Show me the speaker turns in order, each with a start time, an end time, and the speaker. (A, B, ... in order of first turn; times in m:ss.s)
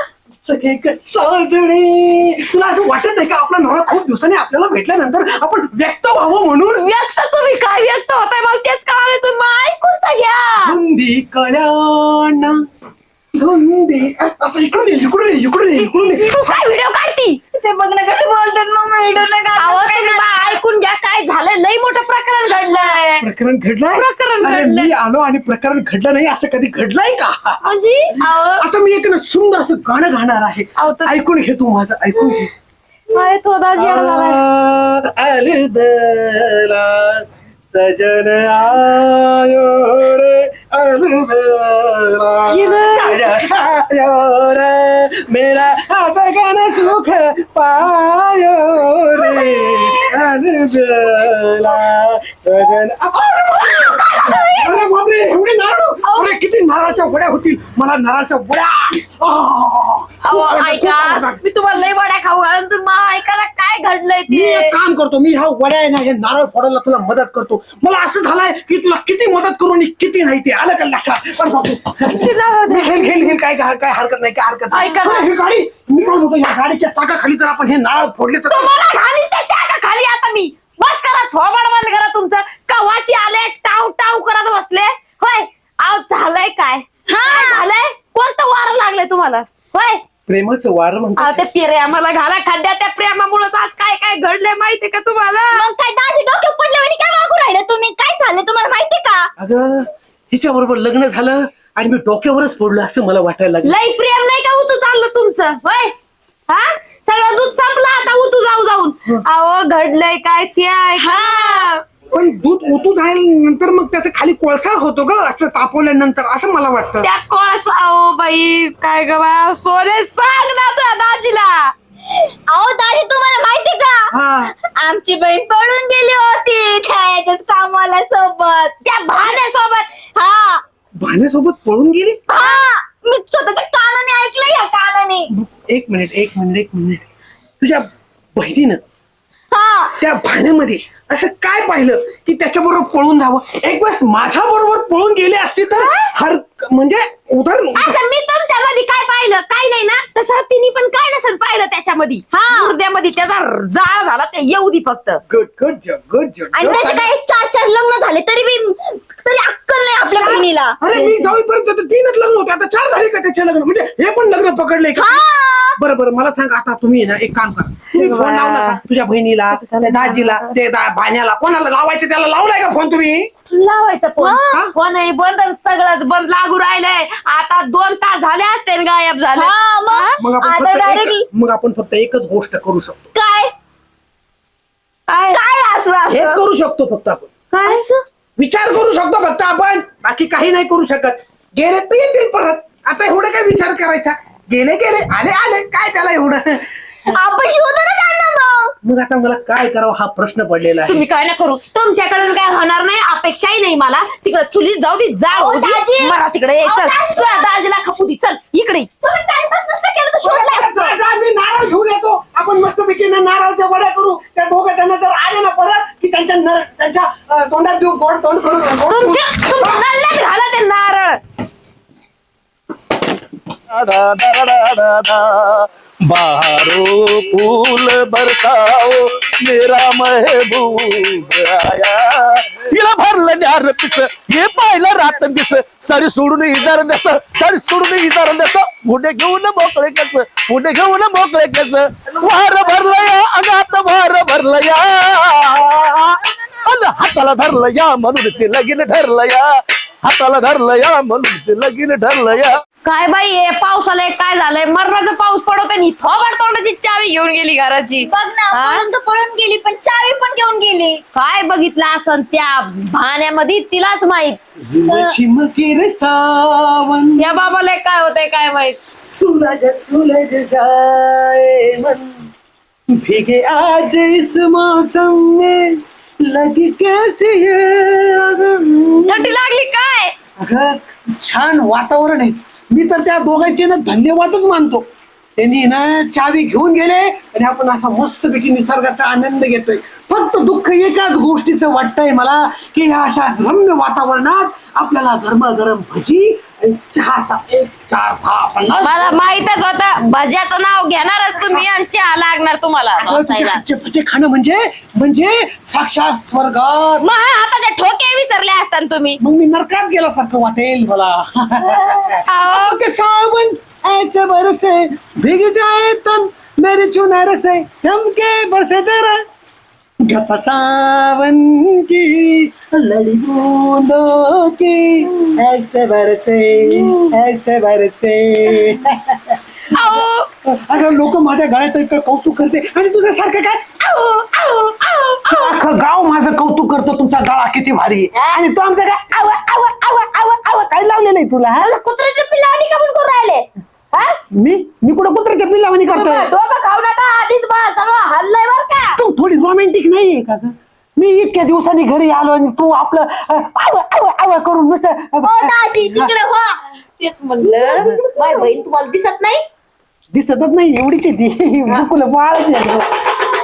0:00.4-0:06.9 A
0:06.8-0:10.8 B
0:10.6-0:12.6 A
0:13.3-0:16.4 A
0:15.9-0:17.4 B
0:17.5-0:20.6 C
0:19.6-0:23.3 B
0:22.5-0:22.9 C
0:23.2-0:27.6 A
0:23.9-0:24.9 B
0:27.6-0:28.6 B
0:28.2-0:32.5 A
0:30.8-0:31.2 B
0:33.1-0:34.4 B
0:33.8-1:01.4 A
0:42.5-0:43.3 C
0:49.2-0:50.0 C
0:49.8-0:50.1 B
0:53.5-0:54.8 C
0:53.9-0:54.4 B
0:56.0-0:56.4 B
1:00.2-1:04.7 B
1:04.3-1:18.9 A
1:12.1-1:13.2 B
1:14.7-1:15.3 B
1:18.5-1:30.0 B
1:27.1-1:27.6 C
1:30.3-1:31.4 A
1:31.2-1:35.7 B
1:35.5-1:39.3 C
1:39.4-1:43.7 A
1:43.6-1:45.9 B
1:46.5-1:51.8 B
1:51.0-1:51.7 C
1:52.1-1:57.1 A
1:57.0-2:01.7 B
2:02.1-2:09.4 C
2:04.1-2:04.5 A
2:08.8-2:09.9 B
2:10.1-2:10.6 C
2:11.0-2:12.2 A
2:12.3-2:15.3 C
2:15.3-2:17.0 A
2:17.6-2:18.8 A
2:19.5-2:20.0 C
2:20.0-2:28.0 A
2:25.8-2:26.1 B
2:27.8-2:35.2 B
2:32.3-2:32.8 C
2:35.3-2:37.1 A
2:36.5-2:40.8 C
2:40.0-2:45.2 A
2:40.9-2:41.3 B
2:45.0-2:45.8 C
2:45.8-2:53.3 A
2:47.9-2:48.8 B
2:49.5-2:50.5 B
2:53.5-3:00.1 B
2:54.2-2:54.6 C
2:59.3-3:01.2 C
3:00.2-3:03.0 A
3:03.1-3:03.5 C
3:05.1-3:05.4 B
3:05.3-3:06.4 C
3:06.1-3:07.3 A
3:07.5-3:07.9 B
3:07.6-3:08.0 C
3:08.4-3:17.2 A
3:17.1-3:18.7 C
3:18.8-3:21.0 A
3:20.9-3:28.9 B
3:25.3-3:27.6 C
3:29.0-3:31.0 C
3:30.2-3:39.8 A
3:38.9-3:41.2 B
3:43.7-4:09.5 D
4:10.0-4:12.6 D
4:12.8-4:18.8 B
4:18.0-4:21.0 C
4:21.1-4:24.4 B
4:24.7-4:27.4 A
4:24.9-4:25.2 C
4:27.2-4:28.8 B
4:28.9-4:32.3 A
4:32.9-4:39.4 A
4:39.0-4:40.1 C
4:40.4-4:44.8 A
4:45.4-4:59.2 A
4:58.8-5:03.6 B
5:03.0-5:07.1 A
5:07.0-5:08.2 C
5:07.4-5:09.2 B
5:09.2-5:19.2 A
5:12.3-5:12.8 B
5:20.0-5:33.8 A
5:29.7-5:30.3 B
5:33.8-5:35.6 B
5:35.2-5:41.7 A
5:38.1-5:38.4 B
5:41.6-5:44.2 B
5:44.3-5:46.3 A
5:45.9-5:49.0 C
5:49.0-5:56.1 A
5:55.2-5:56.6 C
5:57.0-5:59.4 B
5:57.7-5:58.0 A
5:58.2-5:58.5 C
6:00.1-6:03.0 A